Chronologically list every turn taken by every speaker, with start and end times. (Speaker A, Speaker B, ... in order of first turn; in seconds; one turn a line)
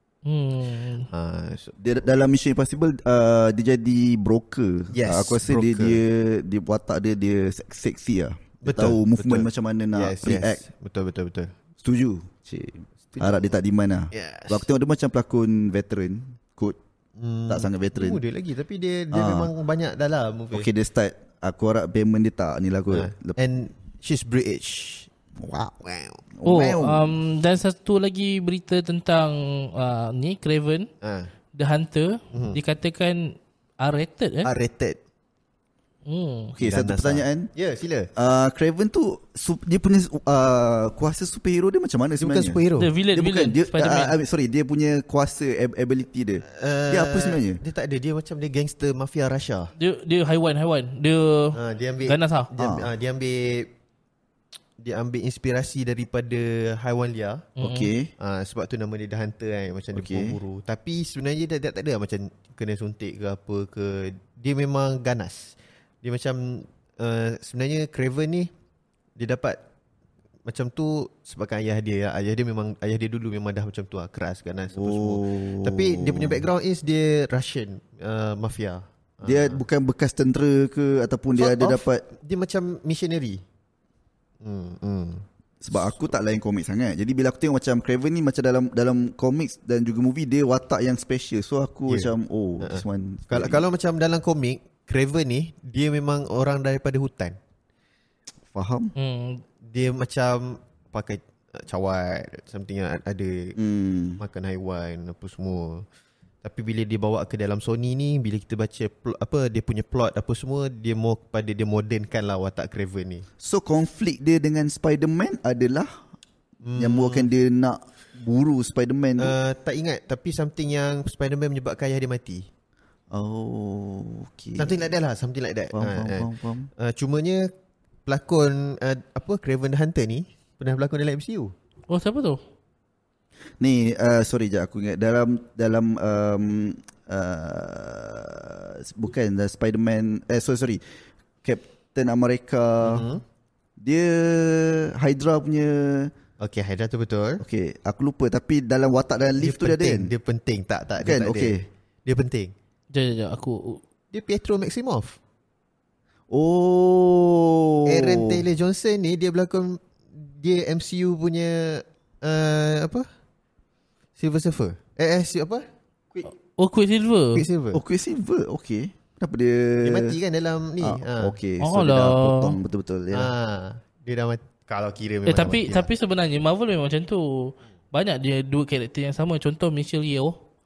Speaker A: 0.2-1.1
Speaker B: 1.1-1.8
Speaker C: 1.8-10.6
Speaker B: 4.9-6.0
Speaker B: 8.6-11.5
Speaker C: 11.8-16.8
Speaker B: 13.1-13.6
Speaker B: 14.1-14.7
Speaker B: 17.2-20.7
Speaker C: 17.5-18.2
Speaker C: 19.1-19.5
Speaker C: 20.5-23.4
Speaker B: 22.9-25.1
Speaker C: 25.4-25.7
Speaker B: 25.7-26.3
Speaker C: 26.3-27.2
Speaker A: 26.4-30.9
Speaker B: 31.0-31.3
Speaker A: 31.6-34.5
Speaker B: 32.3-32.6
Speaker B: 34.4-35.0
Speaker A: 36.1-36.6
Speaker C: 36.6-37.5
Speaker B: 36.6-38.1
Speaker C: 38.1-42.6
Speaker B: 42.2-42.9
Speaker A: 42.8-44.2
Speaker C: 43.1-47.6
Speaker B: 46.5-49.7
Speaker A: 49.8-52.5
Speaker B: 51.5-53.7
Speaker C: 52.6-52.9
Speaker B: 54.8-57.6
Speaker A: 57.6-57.9
Speaker C: 57.6-58.1
Speaker B: 58.2-68.5
Speaker C: 59.9-60.4
Speaker B: 69.2-69.6
Speaker B: 70.5-79.6
Speaker C: 74.7-76.5
Speaker C: 79.2-82.1
Speaker B: 81.4-83.4
Speaker B: 84.4-85.2
Speaker C: 85.6-93.6
Speaker B: 91.9-97.4
Speaker C: 98.5-98.9
Speaker A: 99.0-99.4
Speaker B: 99.6-103.6
Speaker C: 103.6-104.2
Speaker B: 104.2-105.9
Speaker B: 106.4-113.3
Speaker C: 113.4-116.0
Speaker B: 116.6-117.3
Speaker C: 116.8-119.4
Speaker B: 119.2-122.5
Speaker C: 123.1-124.8
Speaker B: 124.6-127.5
Speaker C: 125.7-126.7
Speaker B: 128.1-131.5
Speaker A: 131.9-132.4
Speaker C: 133.6-140.8
Speaker C: 141.4-143.1
Speaker B: 142.8-143.2
Speaker C: 143.8-146.1
Speaker B: 146.4-147.4
Speaker C: 147.4-150.1
Speaker B: 149.4-152.5
Speaker C: 151.0-151.6
Speaker A: 152.9-153.8
Speaker B: 154.1-155.2
Speaker C: 156.3-158.4
Speaker B: 157.9-163.1
Speaker B: 164.2-166.2
Speaker A: 166.4-167.5
Speaker B: 167.3-167.8
Speaker C: 167.7-170.2
Speaker B: 169.8-171.3
Speaker C: 170.8-173.3
Speaker A: 171.6-172.6
Speaker B: 173.1-175.9
Speaker A: 175.3-180.4